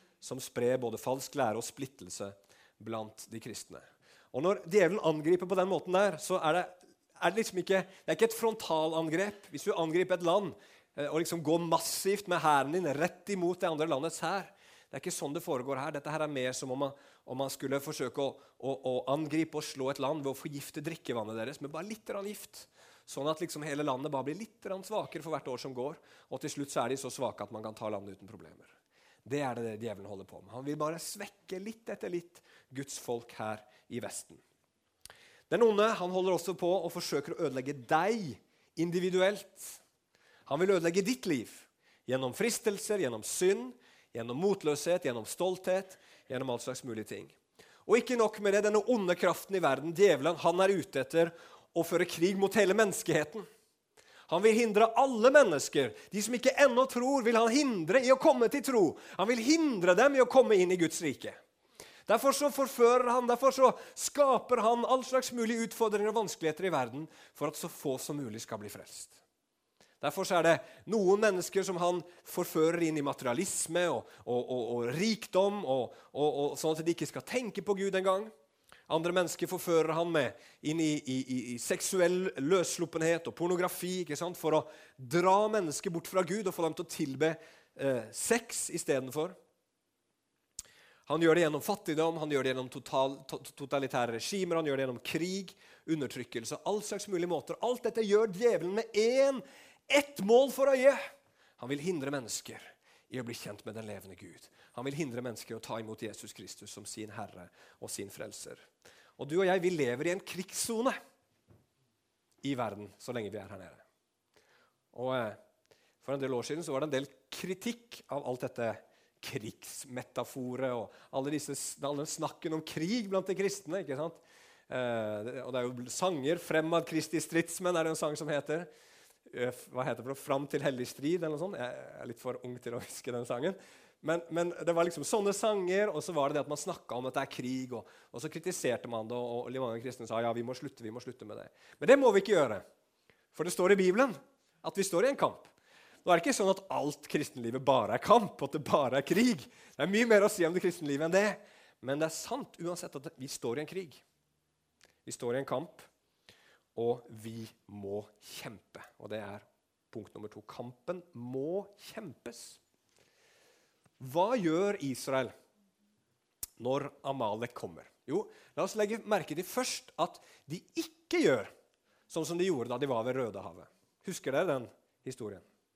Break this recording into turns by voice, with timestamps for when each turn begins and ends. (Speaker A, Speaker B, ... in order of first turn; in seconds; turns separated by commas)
Speaker A: 0.2-28.7, Speaker A: 29.2-34.4, Speaker A: 35.5-39.8, Speaker A: 40.5-53.5, Speaker A: 54.3-61.4, Speaker A: 62.1-69.2, Speaker A: 70.0-78.3, Speaker A: 78.9-89.4, Speaker A: 91.1-101.0, Speaker A: 101.6-108.6, Speaker A: 109.2-111.0, Speaker A: 112.4-113.8, Speaker A: 114.9-115.4, Speaker A: 116.0-128.7, Speaker A: 129.3-142.6, Speaker A: 143.3-145.5, Speaker A: 146.0-154.0, Speaker A: 155.0-155.8, Speaker A: 156.7-162.6, Speaker A: 164.0-165.3, Speaker A: 166.6-171.5, Speaker A: 172.1-175.4